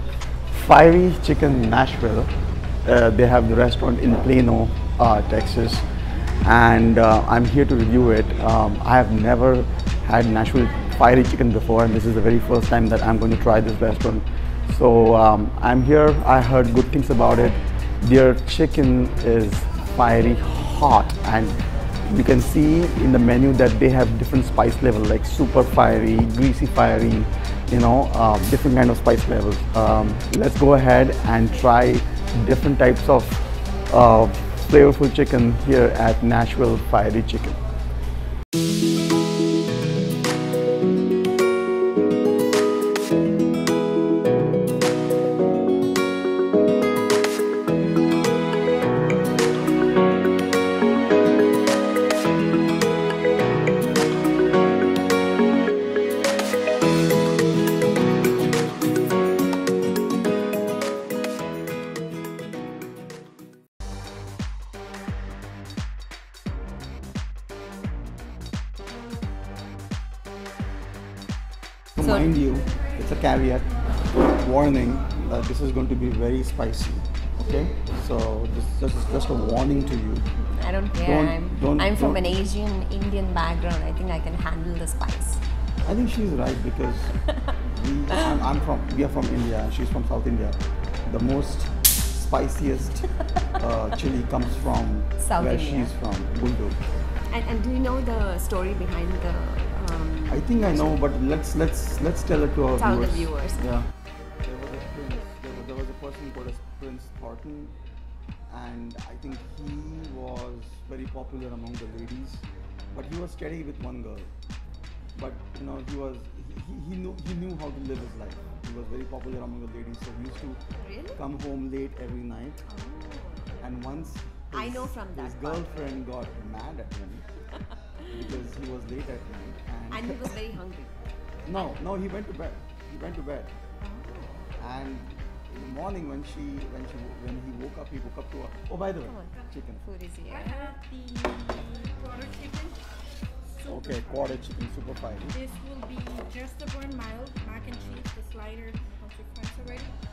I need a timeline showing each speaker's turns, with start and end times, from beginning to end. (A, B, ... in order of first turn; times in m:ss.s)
0:00.5-0:02.3 A
0:02.8-0:05.8 A
0:06.4-0:37.6 A
1:12.0-1:20.3 A
1:20.5-1:25.4 B
1:21.0-1:22.2 A
1:25.9-1:36.8 A
1:35.2-1:35.9 B
1:37.3-1:40.7 B
1:40.3-1:43.9 A
1:42.8-1:43.6 B
1:44.4-1:47.8 A
1:48.5-1:54.3 A
1:55.2-2:00.6 A
2:00.8-2:01.2 B
2:01.2-2:02.6 A
2:02.6-2:03.6 B
2:03.6-2:07.3 A
2:04.5-2:06.0 B
2:08.1-2:10.4 A
2:09.9-2:10.9 B
2:11.5-2:13.5 A
2:13.8-2:14.5 B
2:14.6-2:19.8 A
2:19.0-2:20.8 B
2:20.3-2:22.9 C
2:23.6-2:24.4 C
2:23.6-2:25.4 A
2:25.3-2:30.0 C